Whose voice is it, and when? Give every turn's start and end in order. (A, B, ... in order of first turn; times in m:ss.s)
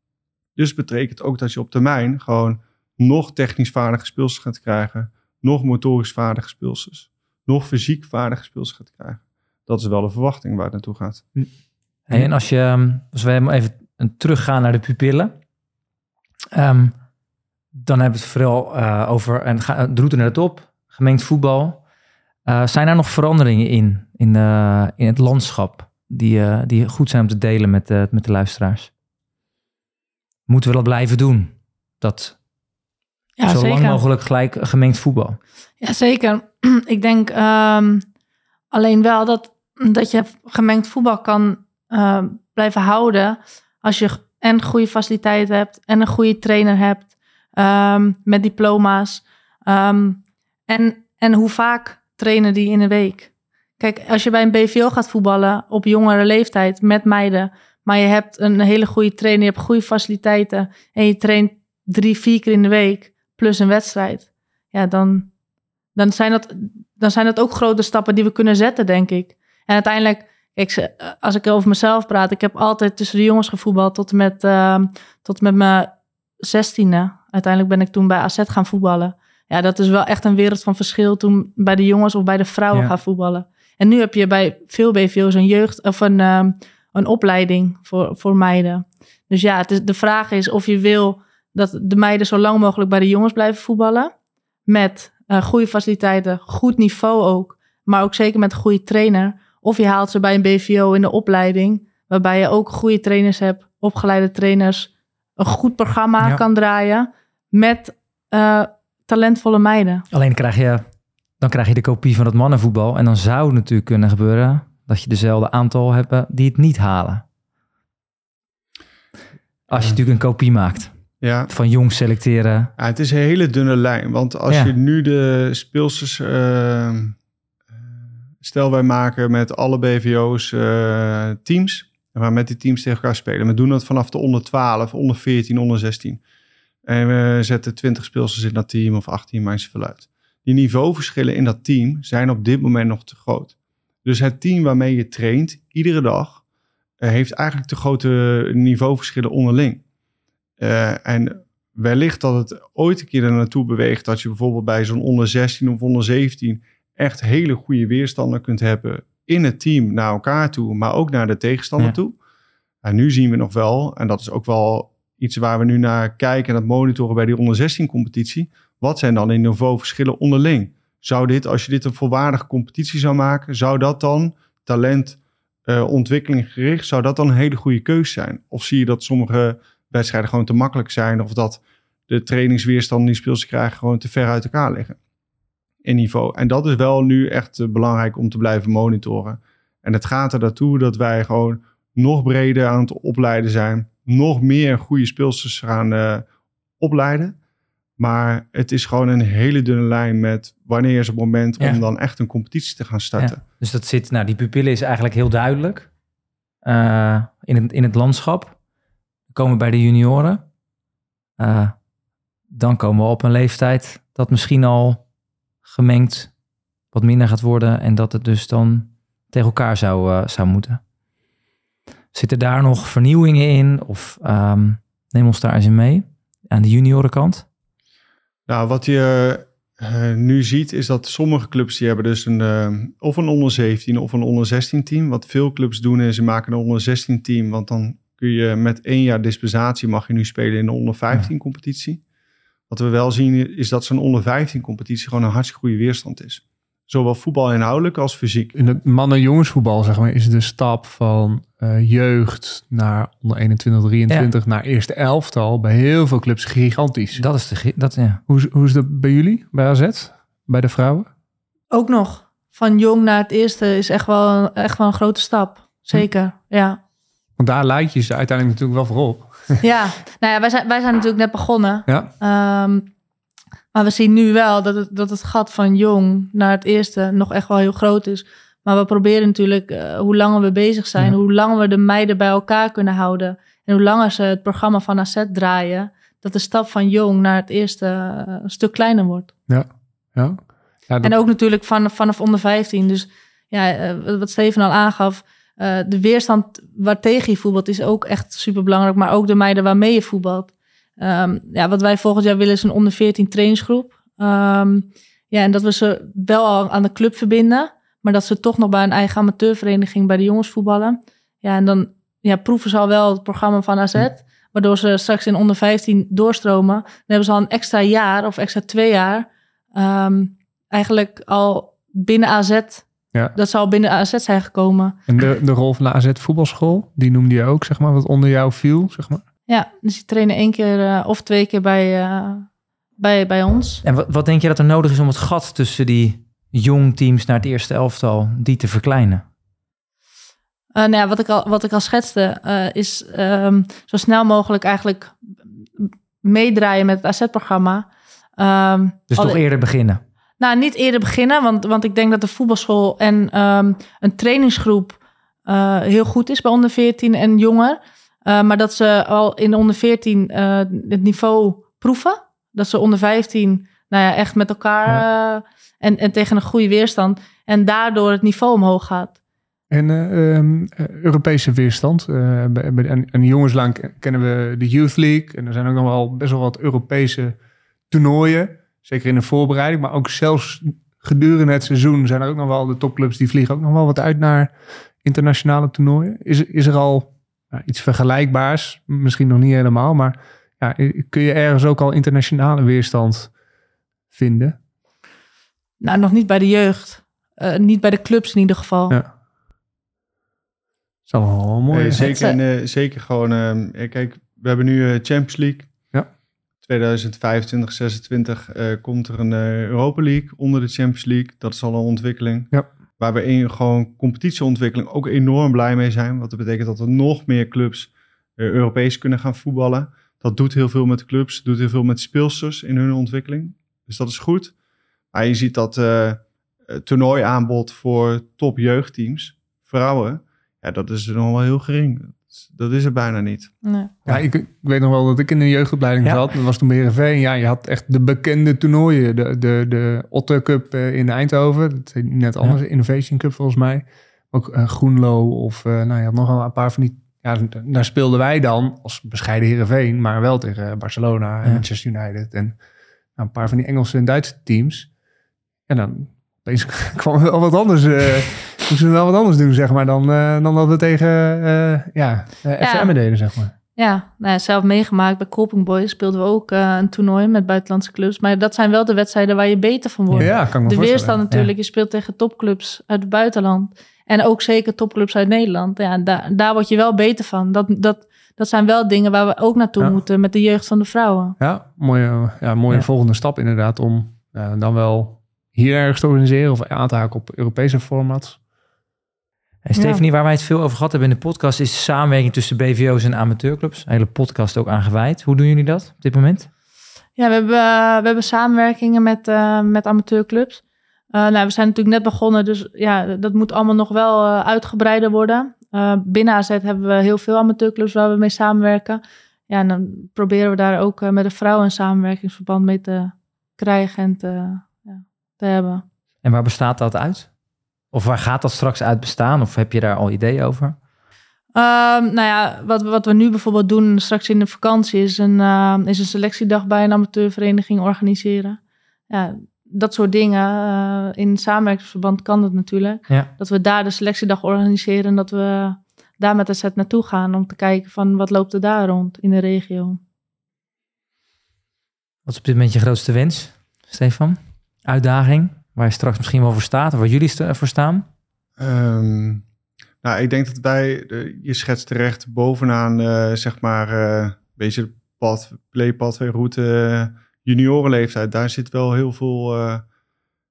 0:00.6-0:11.3 A
0:12.1-0:15.3 B
0:16.5-0:16.9 B
0:17.7-0:21.8 B
0:22.4-0:28.9 B
0:30.5-0:32.4 B
0:33.4-0:34.0 C
0:33.4-0:35.4 B
0:35.8-0:38.0 C
0:38.7-1:05.3 C
1:06.0-1:34.1 C
1:34.7-1:50.0 C
1:50.1-1:50.8 B
1:51.4-1:57.2 B
1:59.7-2:00.9 B
2:01.2-2:01.5 A
2:01.5-2:02.7 B
2:02.8-2:07.1 A
2:08.4-2:16.2 A
2:16.8-2:26.4 A
2:27.0-2:29.8 A
2:30.6-2:42.2 A
2:42.8-3:05.0 A
3:05.8-3:16.2 A
3:16.8-3:17.4 A
3:18.0-3:23.4 A
3:23.2-3:25.9 B
3:26.6-3:28.6 B
3:29.3-3:30.4 B
3:31.4-3:31.7 B
3:32.5-3:35.0 B
3:35.6-3:36.3 B
3:36.9-3:40.8 B
3:42.1-3:47.4 B
3:48.5-4:02.0 A
4:02.7-4:08.5 A
4:08.5-4:17.2 D
4:17.1-4:18.2 B
4:18.3-4:21.1 D
4:21.7-4:26.8 C
4:27.4-4:29.6 D
4:29.6-4:32.9 C
4:33.7-4:49.3 C
4:49.5-4:51.1 D
4:51.0-5:25.0 C
5:25.1-5:29.2 D
5:29.5-5:32.5 C
5:33.0-5:33.8 C
5:33.8-5:39.2 B
5:40.7-5:45.1 C
5:45.8-5:49.4 C
5:49.1-5:50.0 B
5:50.4-6:09.2 C
6:09.7-6:17.3 D
6:17.9-6:33.3 D
6:34.1-6:34.6 D
6:35.8-6:39.0 C
6:41.1-6:42.1 D
6:41.7-6:45.7 A
6:42.0-6:42.4 C
6:46.6-7:04.5 A
7:05.1-7:13.5 A
7:13.6-7:13.9 C
7:14.0-7:32.6 D
7:33.2-7:34.9 D
7:35.7-7:43.5 D
7:42.6-7:42.9 C
7:43.8-8:01.4 C
7:50.2-7:51.2 D
8:01.4-8:08.4 D
8:09.6-8:16.5 B
8:09.8-8:10.0 C
8:17.2-8:20.6 C
8:21.1-8:35.8 C
8:36.2-8:37.3 B
8:37.9-8:40.8 B
8:41.5-8:48.6 C
8:49.1-9:00.0 C
9:02.2-9:08.0 B
9:08.6-9:09.4 A
9:10.0-9:19.8 A